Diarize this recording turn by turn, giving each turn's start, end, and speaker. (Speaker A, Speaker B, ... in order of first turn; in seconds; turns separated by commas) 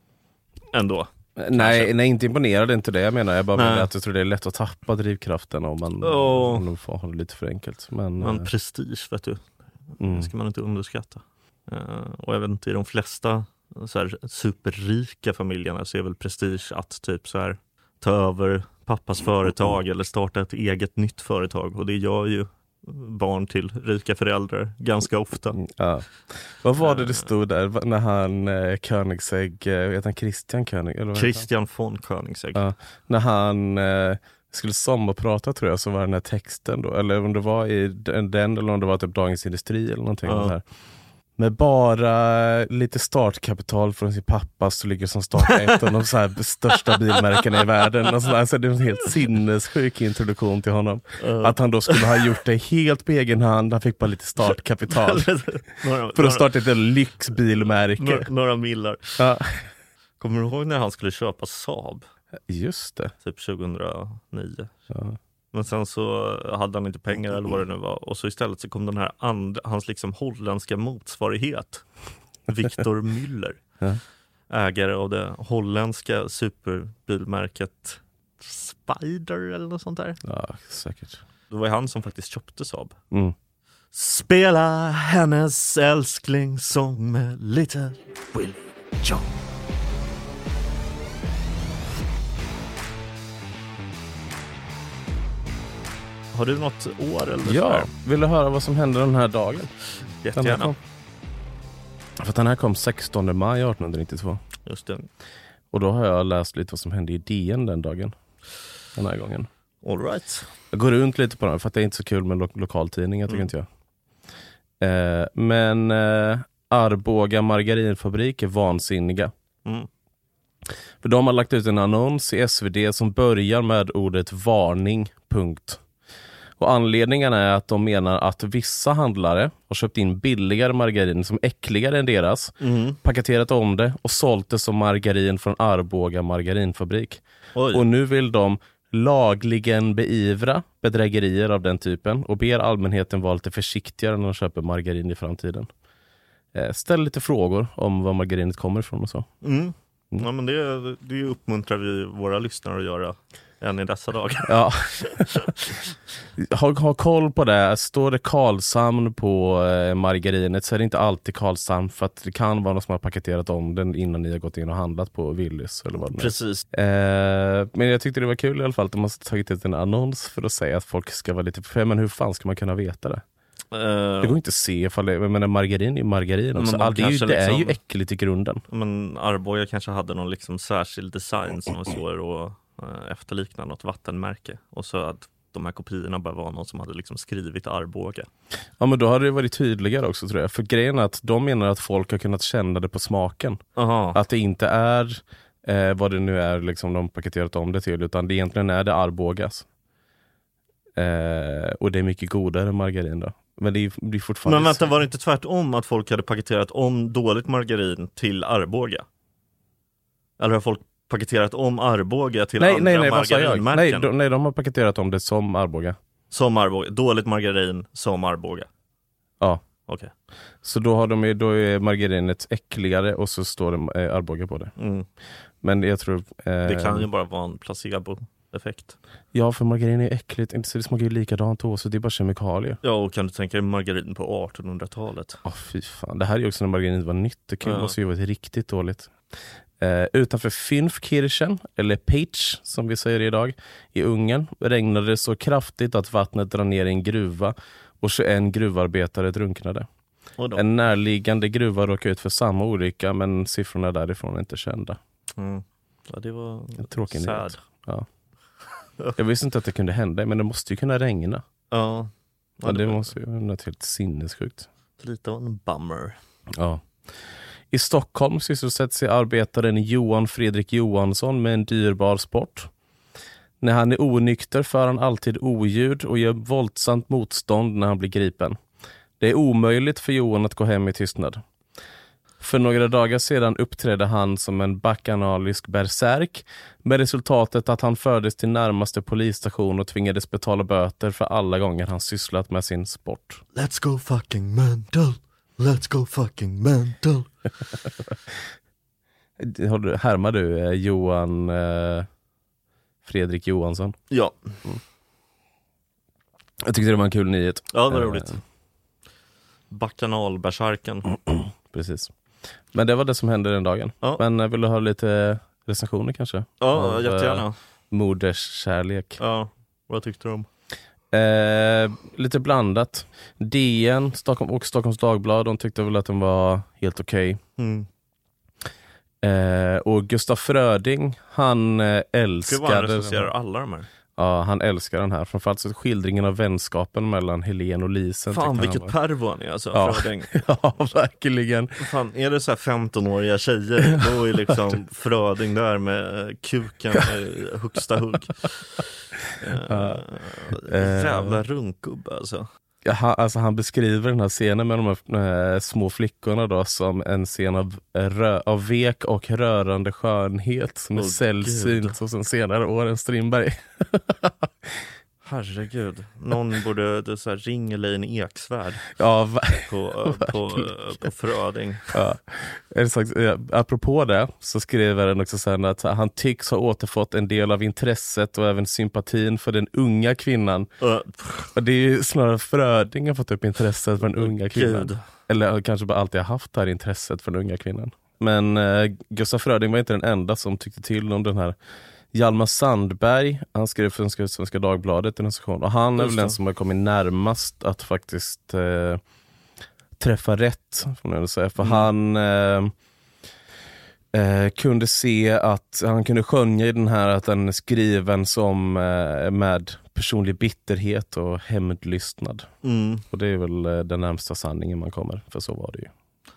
Speaker A: 0.7-1.9, Speaker B: 1.4-8.5, Speaker A: 3.5-3.9, Speaker A: 6.0-6.6, Speaker A: 8.2-25.6, Speaker B: 10.0-10.3, Speaker B: 25.6-31.4, Speaker A: 26.8-27.3, Speaker A: 31.1-32.6, Speaker B: 32.5-40.6, Speaker A: 40.2-40.5, Speaker B: 41.4-55.3, Speaker A: 45.5-45.8, Speaker A: 46.9-47.6, Speaker A: 51.2-52.3, Speaker A: 54.9-56.5, Speaker B: 56.1-58.3, Speaker A: 58.0-59.2, Speaker B: 59.2-59.7, Speaker A: 60.2-62.1, Speaker B: 62.5-63.1, Speaker A: 63.2-64.7, Speaker B: 64.9-65.2, Speaker A: 65.5-71.9, Speaker A: 72.5-73.6, Speaker A: 74.5-80.2, Speaker B: 80.2-81.2, Speaker A: 81.5-83.0, Speaker A: 83.9-89.3, Speaker A: 96.3-97.9, Speaker B: 97.4-99.7, Speaker A: 100.2-100.7, Speaker B: 100.3-100.8, Speaker B: 102.2-104.4, Speaker A: 104.6-105.1, Speaker B: 105.7-108.1, Speaker B: 108.9-109.5, Speaker A: 109.8-110.5, Speaker B: 110.7-113.7, Speaker B: 114.8-119.3, Speaker B: 121.0-125.8, Speaker B: 126.6-137.2, Speaker A: 132.6-133.0, Speaker A: 137.5-137.8, Speaker B: 137.7-145.7, Speaker B: 146.5-149.3, Speaker A: 149.4-155.9, Speaker B: 154.5-155.3, Speaker B: 156.3-173.2, Speaker A: 166.0-166.6, Speaker A: 173.7-174.3, Speaker B: 174.2-178.6, Speaker A: 176.6-177.8, Speaker A: 178.7-188.3, Speaker B: 188.8-193.6, Speaker A: 193.8-194.2, Speaker B: 194.1-199.7, Speaker B: 200.9-204.9, Speaker A: 204.4-209.0, Speaker A: 210.4-214.1, Speaker B: 212.6-215.9, Speaker A: 216.3-218.7, Speaker A: 219.8-220.1, Speaker B: 220.6-224.7, Speaker A: 224.8-225.1, Speaker B: 225.6-227.1, Speaker A: 226.6-228.9, Speaker B: 229.3-232.8, Speaker A: 232.8-235.4, Speaker B: 235.4-239.1, Speaker A: 237.6-237.9, Speaker B: 239.8-249.9, Speaker A: 250.4-250.6, Speaker B: 250.5-255.0, Speaker A: 255.4-257.6, Speaker B: 256.8-258.1, Speaker B: 259.1-261.4, Speaker A: 261.7-263.1, Speaker B: 262.6-264.7, Speaker A: 265.0-266.2, Speaker B: 266.5-266.9, Speaker B: 267.7-272.7, Speaker B: 273.6-278.6, Speaker B: 279.2-281.4, Speaker B: 282.4-293.4, Speaker A: 293.5-297.3, Speaker B: 299.4-302.1, Speaker B: 303.0-304.0, Speaker A: 304.1-304.6, Speaker B: 306.6-308.4, Speaker A: 307.7-308.4, Speaker A: 309.7-311.2, Speaker B: 311.7-312.1, Speaker B: 312.7-319.2, Speaker A: 316.6-317.6, Speaker A: 319.2-320.5, Speaker B: 321.1-327.4, Speaker A: 327.6-327.9, Speaker B: 329.2-333.3, Speaker A: 332.4-333.9, Speaker B: 334.2-338.9, Speaker A: 338.3-340.4, Speaker B: 339.7-341.8, Speaker A: 341.8-352.5, Speaker B: 349.6-351.4, Speaker B: 352.8-364.9, Speaker A: 360.9-362.0, Speaker A: 365.2-368.9, Speaker B: 369.0-370.7, Speaker A: 369.7-372.0, Speaker B: 371.9-380.7, Speaker A: 380.8-381.5, Speaker B: 381.5-391.6, Speaker A: 384.2-385.0, Speaker B: 392.1-399.0, Speaker A: 395.9-396.4, Speaker B: 400.0-402.7, Speaker A: 401.6-401.9, Speaker B: 404.1-412.5, Speaker A: 412.6-413.0, Speaker B: 413.1-415.9